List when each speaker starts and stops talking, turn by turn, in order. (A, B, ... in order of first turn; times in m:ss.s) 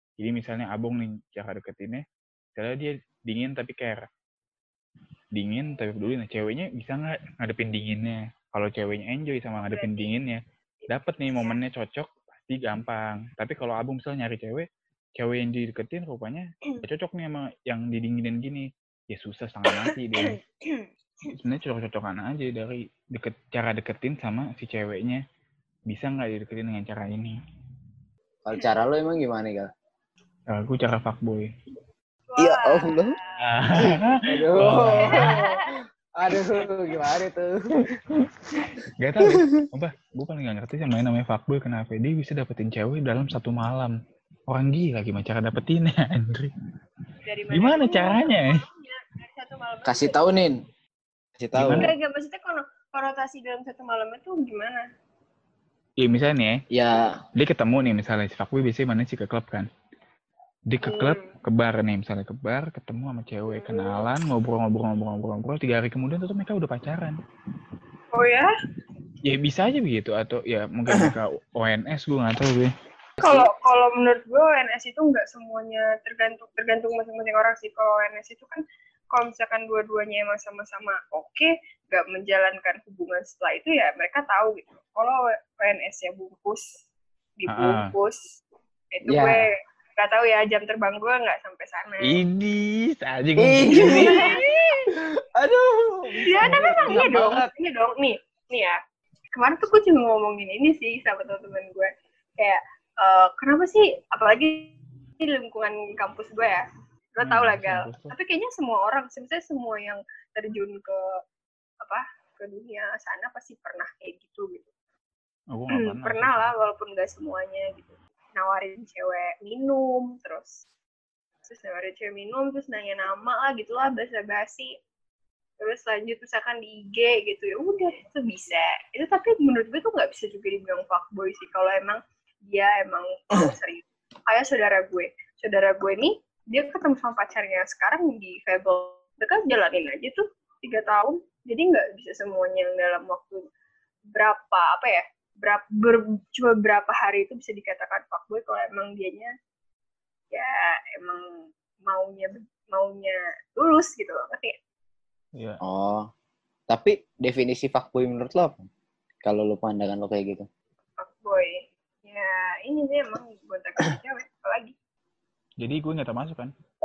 0:00.2-0:02.0 A
0:02.6-0:04.0 A
0:05.3-0:14.6 A
0:09.6-0:10.1 B
0:10.8-0:11.6 B
0:15.2-0:20.4 A
0:19.7-0:20.9 B
0:21.3-0:25.2 A
0:25.9-0:27.4 A
0:28.4-0:29.7 C
0:30.5-0:31.5 A
0:32.3-0:33.5 B
0:32.4-0:33.1 C
0:33.4-0:35.4 A
0:33.8-0:37.6 C
0:35.0-0:35.7 B
0:37.9-0:43.9 A
0:44.5-0:46.5 A
0:47.2-0:50.3 B
0:47.5-0:48.6 A
0:49.9-0:50.6 C
0:51.4-0:51.9 C
0:51.5-0:51.9 A
0:51.7-0:54.8 B
0:56.0-0:56.6 A
0:56.7-0:57.1 C
0:57.4-0:59.7 A
1:00.7-1:07.2 A
1:00.8-1:01.3 B
1:03.5-1:04.0 B
1:08.1-1:08.5 B
1:09.2-1:12.7 A
1:13.2-1:13.5 C
1:13.2-1:18.6 B
1:19.1-1:26.7 B
1:27.4-1:28.4 B
1:27.5-1:27.9 A
1:28.9-1:32.2 B
1:29.1-1:29.4 C
1:32.1-1:34.6 A
1:33.4-1:34.4 C
1:33.7-1:34.7 B
1:35.4-1:37.5 C
1:36.3-1:38.8 B
1:39.3-1:46.6 B
1:47.2-1:51.0 B
1:47.2-1:48.1 A
1:51.8-1:54.7 B
1:55.5-1:56.5 A
1:55.7-2:00.6 B
2:01.5-2:04.7 B
2:05.6-2:23.4 B
2:24.1-2:29.3 B
2:30.3-2:31.2 B
2:31.9-2:34.6 B
2:35.6-2:36.1 C
2:36.7-2:38.6 C
2:39.2-2:40.4 C
2:41.0-2:44.7 B
2:45.6-2:46.5 A